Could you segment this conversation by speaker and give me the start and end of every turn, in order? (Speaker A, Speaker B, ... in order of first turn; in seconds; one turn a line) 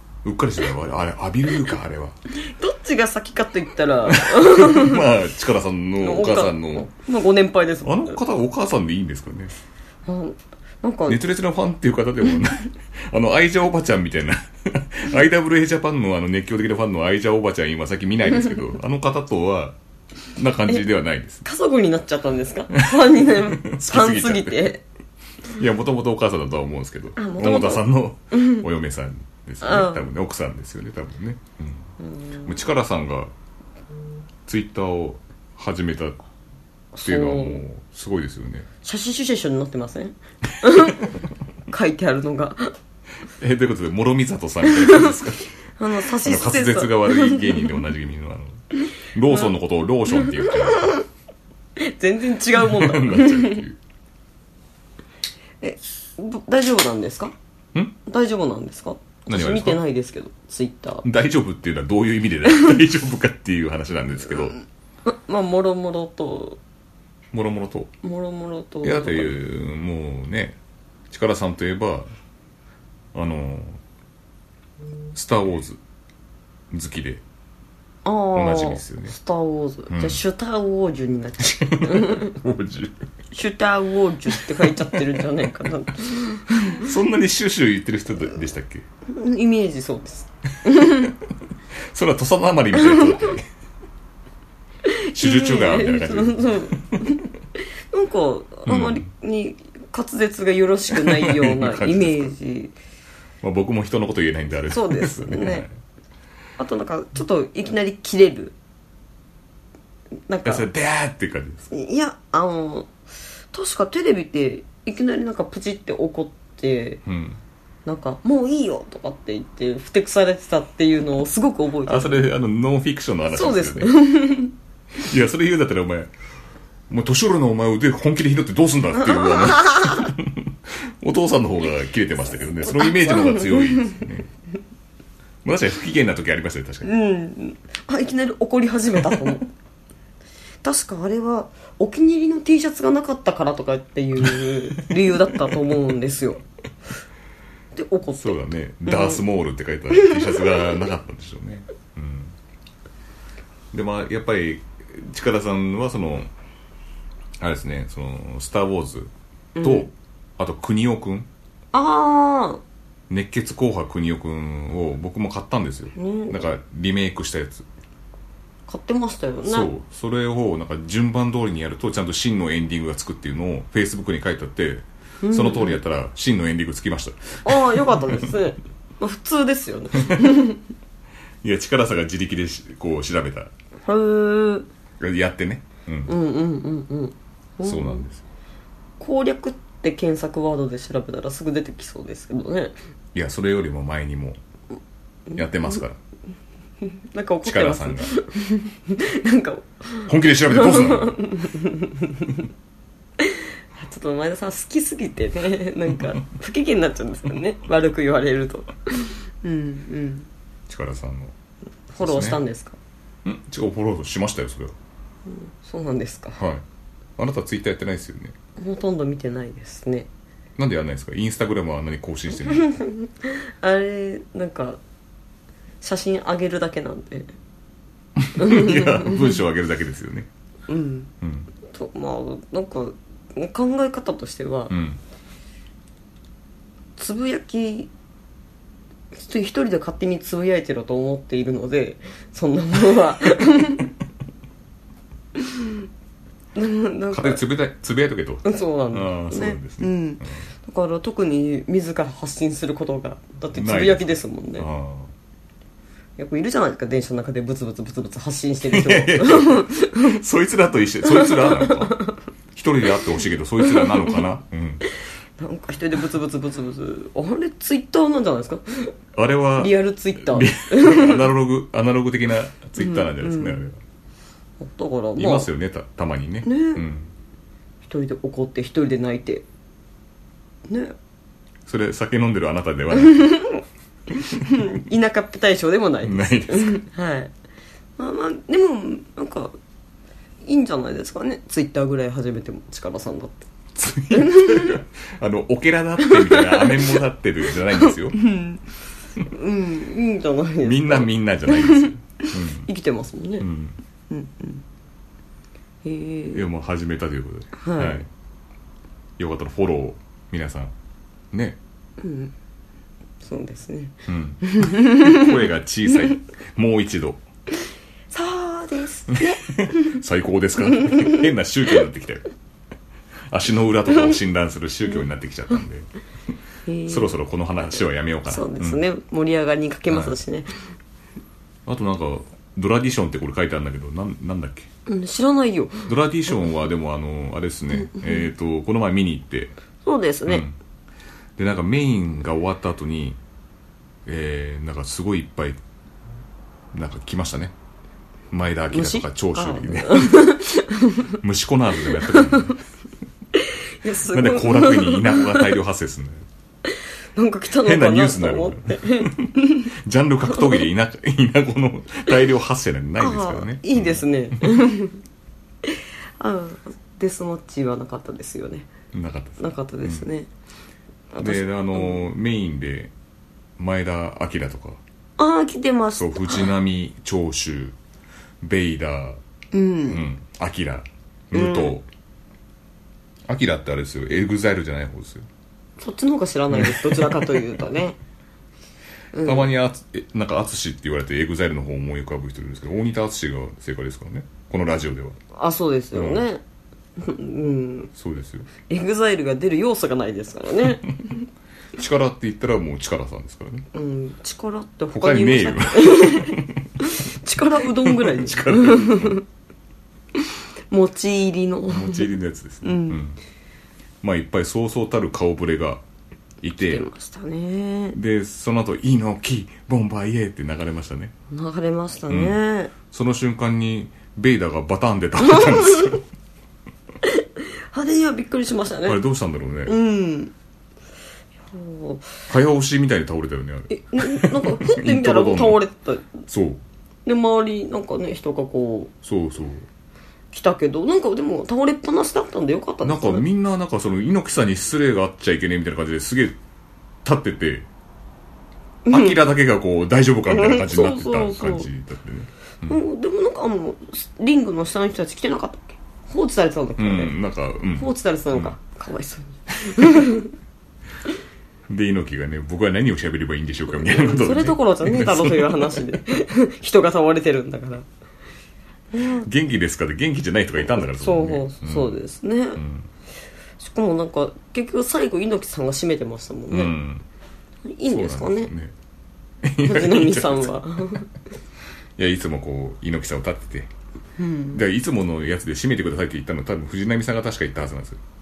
Speaker A: 0.2-2.2
Speaker B: 2.4-5.0
Speaker A: 4.0-6.9
Speaker B: 6.0-8.2
Speaker A: 7.8-9.5
Speaker B: 10.1-11.2
Speaker A: 11.1-19.8
Speaker A: 20.3-21.4
Speaker B: 21.4-24.8
Speaker A: 22.8-24.7
Speaker A: 25.5-31.9
Speaker B: 27.1-28.6
Speaker B: 29.6-30.1
Speaker B: 32.0-32.5
Speaker A: 32.4-33.3
Speaker A: 34.5-36.2
Speaker B: 36.9-37.6
Speaker A: 37.0-38.7
Speaker B: 38.8-41.1
Speaker B: 41.7-42.7
Speaker A: 43.4-51.0
Speaker B: 44.6-45.2
Speaker B: 45.8-47.8
Speaker B: 50.1-51.0
Speaker B: 51.8-53.7
Speaker A: 52.5-53.8
Speaker B: 55.6-57.3
Speaker B: 58.0-61.0
Speaker A: 59.2-59.8
Speaker A: 61.0-64.5
Speaker B: 65.0-66.6
Speaker A: 67.3-67.9
Speaker B: 68.0-69.3
Speaker A: 68.8-70.6
Speaker A: 71.1-72.1
Speaker A: 73.1-73.8
Speaker A: 75.1-75.8
Speaker A: 76.7-77.2
Speaker B: 78.0-82.4
Speaker A: 78.3-79.1
Speaker A: 79.9-80.2
Speaker A: 81.4-83.0
Speaker B: 83.3-86.9
Speaker A: 84.4-85.2
Speaker A: 86.8-88.8
Speaker B: 89.1-91.1
Speaker A: 90.8-91.1
Speaker A: 91.9-93.5
Speaker B: 92.8-93.3
Speaker B: 94.8-102.7
Speaker A: 95.1-97.1
Speaker A: 98.7-99.0
Speaker A: 100.9-102.3
Speaker A: 103.4-105.7
Speaker B: 104.7-105.7
Speaker B: 106.6-108.5
Speaker B: 110.3-110.7
Speaker A: 110.4-111.6
Speaker B: 111.7-112.9
Speaker B: 113.5-117.0
Speaker A: 117.0-117.4
Speaker B: 117.8-122.2
Speaker A: 121.8-124.0
Speaker B: 123.3-124.5
Speaker A: 125.0-126.1
Speaker A: 126.9-134.3
Speaker B: 129.3-129.9
Speaker B: 132.6-134.0
Speaker A: 135.4-136.9
Speaker B: 136.8-139.5
Speaker B: 140.6-146.4
Speaker B: 147.7-149.2
Speaker A: 148.2-152.3
Speaker B: 149.9-150.6
Speaker A: 153.7-156.3
Speaker A: 157.4-161.3
Speaker B: 159.6-159.9
Speaker B: 161.7-162.6
Speaker A: 163.1-167.7
Speaker B: 165.9-166.4
Speaker B: 168.7-169.7
Speaker A: 169.4-178.3
Speaker B: 175.2-175.8
Speaker B: 177.4-180.6
Speaker A: 180.0-180.2
Speaker A: 181.4-183.5
Speaker B: 183.8-184.7
Speaker A: 185.0-186.1
Speaker B: 186.1-188.1
Speaker A: 187.6-188.2
Speaker B: 189.0-192.7
Speaker A: 193.1-194.4
Speaker A: 195.3-196.0
Speaker B: 197.1-202.4
Speaker A: 197.4-198.1
Speaker A: 200.1-201.2
Speaker B: 203.2-210.3
Speaker A: 210.7-211.3
Speaker B: 211.9-212.8
Speaker A: 212.0-212.4
Speaker A: 213.2-214.8
Speaker B: 215.3-216.4
Speaker A: 216.4-216.6
Speaker A: 217.2-218.3
Speaker B: 218.6-220.1
Speaker A: 220.6-222.7
Speaker B: 222.4-224.8
Speaker B: 225.8-227.3
Speaker A: 228.2-230.3
Speaker B: 228.3-229.4
Speaker B: 230.7-231.1
Speaker A: 231.2-231.5
Speaker B: 231.6-234.8
Speaker A: 234.7-235.0
Speaker B: 237.0-237.9
Speaker B: 239.1-243.9
Speaker B: 245.4-245.8
Speaker B: 246.5-247.4
Speaker A: 247.1-250.4
Speaker B: 248.4-254.7
Speaker A: 253.5-255.1
Speaker B: 256.2-260.2
Speaker A: 258.7-262.0
Speaker B: 261.1-262.2
Speaker A: 262.5-264.8
Speaker B: 263.6-264.2
Speaker B: 265.4-268.9
Speaker A: 269.1-273.8
Speaker B: 269.6-271.3
Speaker B: 272.8-273.6
Speaker B: 274.6-275.5
Speaker A: 275.2-277.1
Speaker B: 276.4-276.8
Speaker B: 277.8-279.4
Speaker B: 280.7-280.9
Speaker A: 281.6-283.4
Speaker B: 283.0-283.6
Speaker A: 284.2-284.4
Speaker B: 284.4-287.3
Speaker A: 286.0-286.8
Speaker B: 288.0-289.6
Speaker B: 290.4-293.4
Speaker A: 293.8-298.2
Speaker B: 294.1-294.8
Speaker B: 296.0-297.0
Speaker B: 297.8-298.6
Speaker B: 299.2-303.5
Speaker A: 300.6-302.7
Speaker A: 303.4-303.8
Speaker B: 304.1-304.6
Speaker B: 305.8-306.4
Speaker A: 306.3-308.1
Speaker B: 307.6-308.0
Speaker A: 309.2-310.7
Speaker A: 311.3-311.6
Speaker B: 312.0-312.3
Speaker B: 313.2-315.4
Speaker A: 314.1-317.2
Speaker B: 318.1-320.0
Speaker A: 319.1-322.2
Speaker B: 320.8-321.2
Speaker A: 323.3-325.9
Speaker B: 326.6-327.1
Speaker A: 326.9-328.8
Speaker B: 328.2-330.6
Speaker A: 329.9-330.1
Speaker A: 331.6-334.7
Speaker B: 334.9-335.9
Speaker A: 335.9-339.5
Speaker B: 337.8-338.3
Speaker B: 339.8-340.4
Speaker A: 340.2-340.6
Speaker A: 341.4-343.2
Speaker A: 344.1-345.6
Speaker A: 346.7-347.5
Speaker A: 348.3-350.3
Speaker B: 348.7-351.2
Speaker A: 351.2-352.6
Speaker B: 351.9-352.5
Speaker B: 353.4-355.5
Speaker A: 354.1-356.2
Speaker B: 356.6-359.7
Speaker A: 357.6-364.4
Speaker B: 360.3-360.6
Speaker B: 363.0-365.0
Speaker B: 365.6-368.7
Speaker A: 368.9-370.1
Speaker B: 369.4-370.3
Speaker B: 371.1-372.1
Speaker A: 371.2-372.9
Speaker A: 373.6-374.8
Speaker B: 375.2-376.5
Speaker A: 376.0-377.8
Speaker A: 378.4-379.2
Speaker B: 379.5-380.0
Speaker A: 379.9-381.9
Speaker B: 381.3-381.7
Speaker A: 383.3-385.3
Speaker B: 385.8-388.0
Speaker A: 386.5-387.3
Speaker B: 389.1-389.5
Speaker A: 389.2-395.2
Speaker B: 395.3-396.4
Speaker A: 395.9-396.2
Speaker B: 397.0-397.9
Speaker A: 397.9-398.5
Speaker B: 398.6-401.2
Speaker A: 401.8-403.7
Speaker B: 403.7-409.2
Speaker A: 404.9-406.7
Speaker A: 407.8-409.2
Speaker B: 410.1-412.1
Speaker A: 411.7-413.2
Speaker B: 412.6-413.0
Speaker A: 414.0-415.8
Speaker A: 416.4-416.9
Speaker B: 416.6-418.0
Speaker A: 417.9-421.1
Speaker B: 421.3-422.7
Speaker A: 422.1-422.4
Speaker A: 422.9-426.0
Speaker B: 425.2-425.9
Speaker B: 427.0-429.0
Speaker A: 428.9-429.7
Speaker B: 429.6-430.3
Speaker B: 431.5-432.1
Speaker A: 432.3-435.6
Speaker B: 433.7-436.2
Speaker A: 436.3-436.6
Speaker B: 437.1-438.9
Speaker A: 439.0-439.7
Speaker B: 440.3-443.2
Speaker A: 442.8-446.4
Speaker A: 447.0-447.7
Speaker B: 448.9-449.2
Speaker A: 448.9-452.8
Speaker B: 450.3-451.7
Speaker B: 452.6-457.1
Speaker A: 456.8-458.5
Speaker B: 457.8-460.3
Speaker A: 461.7-465.8
Speaker B: 463.8-467.9
Speaker B: 468.9-469.3
Speaker A: 469.2-472.0
Speaker B: 470.7-472.6
Speaker A: 472.6-472.9
Speaker B: 473.6-476.8
Speaker A: 476.5-477.0
Speaker B: 477.7-478.5
Speaker A: 477.9-478.7
Speaker A: 479.4-481.0
Speaker B: 479.6-481.1
Speaker A: 482.0-483.7
Speaker B: 484.2-484.6
Speaker A: 484.5-488.0